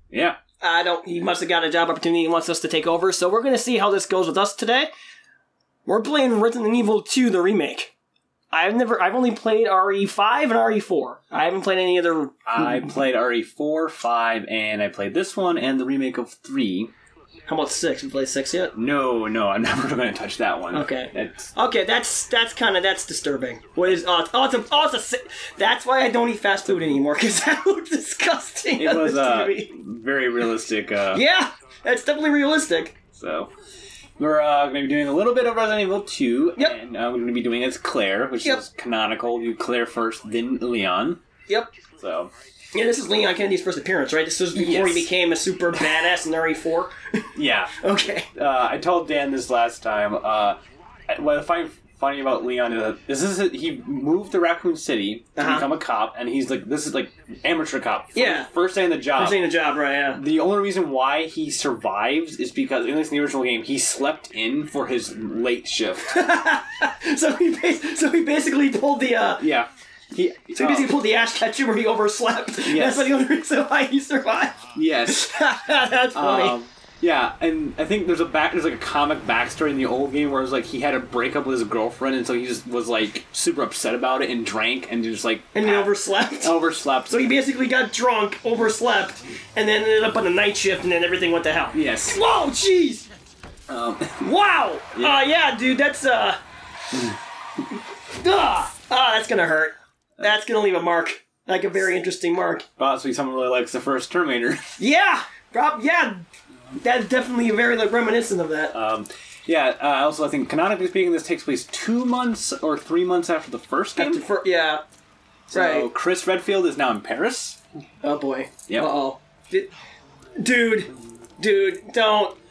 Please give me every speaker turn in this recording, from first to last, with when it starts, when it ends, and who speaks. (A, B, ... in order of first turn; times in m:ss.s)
0:00.1-0:00.4 A
0:00.6-0:04.9 B
0:05.8-0:07.9 B
0:08.5-0:12.9 B
0:12.4-0:16.9 A
0:17.5-0:18.7 B
0:18.7-0:21.5 A
0:20.7-0:29.7 B
0:28.8-0:31.2 A
0:31.1-0:32.9 B
0:33.1-0:33.5 A
0:34.2-0:41.2 A
0:42.0-0:42.3 A
0:42.7-0:48.3 B
0:44.5-0:45.1 A
0:47.3-0:47.7 A
0:48.3-0:59.5 A
0:55.4-0:55.7 B
0:58.1-0:58.5 B
0:59.1-1:00.2 B
1:00.1-1:06.2 A
1:06.1-1:09.4 B
1:09.4-1:11.0 A
1:10.5-1:16.6 B
1:12.6-1:13.1 A
1:14.7-1:15.3 A
1:16.1-1:27.4 A
1:25.5-1:33.1 B
1:31.7-1:32.2 A
1:33.7-1:34.3 A
1:34.2-1:36.4 B
1:34.9-1:35.2 A
1:38.1-1:42.6 B
1:42.8-1:44.8 A
1:44.8-1:46.2 B
1:46.8-1:48.7 B
1:48.7-1:54.2 A
1:54.0-1:54.8 B
1:55.5-1:57.6 A
1:55.5-1:55.9 B
1:58.0-1:59.7 B
2:00.4-2:02.4 B